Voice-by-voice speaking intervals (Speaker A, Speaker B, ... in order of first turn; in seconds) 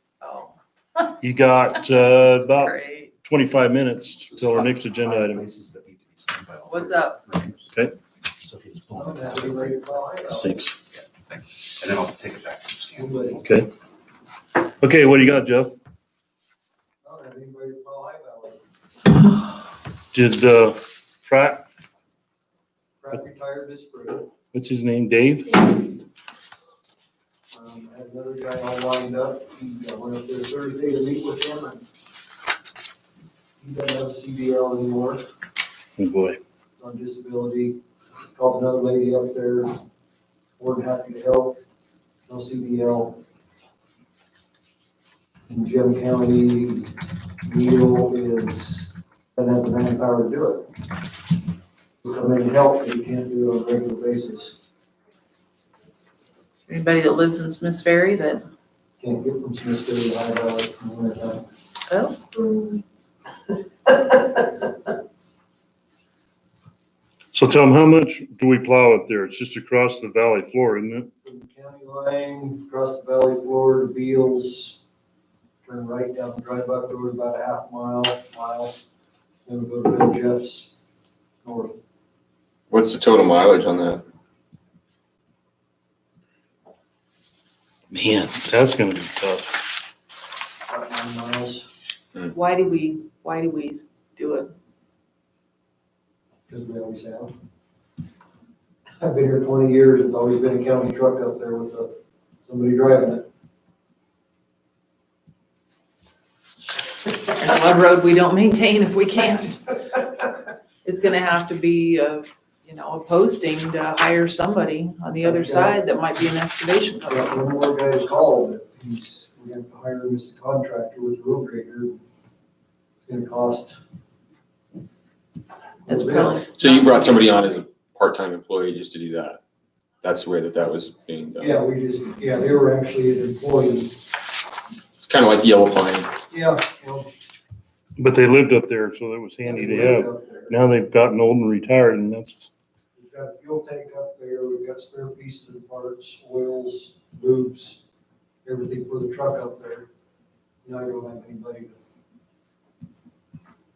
Speaker A: 0.2-1.1, 1.9-3.1, 6.7-7.2, 56.7-58.5, 61.9-62.8, 92.3-94.5, 107.1-109.8, 110.8-117.3, 125.9-127.6
Speaker B: 1.2-5.5, 10.3-10.8, 13.4-13.7, 14.6-15.7, 20.1-21.7, 24.5-25.8, 36.0-36.4, 67.3-71.1, 87.9-89.6, 138.0-142.5
Speaker C: 4.4-7.7, 8.4-10.0, 10.9-13.2
Speaker D: 8.9-10.6, 12.9-13.4, 17.0-18.6, 23.0-24.3, 27.5-31.9, 33.6-35.3, 36.8-37.8, 38.3-39.8, 40.6-41.6, 42.3-43.2, 45.5-50.7, 52.0-54.6, 59.0-61.4, 71.2-74.8, 75.7-78.8, 79.5-80.7, 81.4-81.8, 90.7-91.7, 96.5-97.3, 99.0-103.3, 115.2-115.8, 117.1-122.0, 123.0-123.8, 125.9-126.4, 131.4-134.0, 136.3-137.1, 139.4-140.6, 143.0-147.8, 148.4-149.9, 150.7-151.8
Speaker E: 82.7-84.0, 126.5-129.4, 130.0-131.5, 135.1-136.1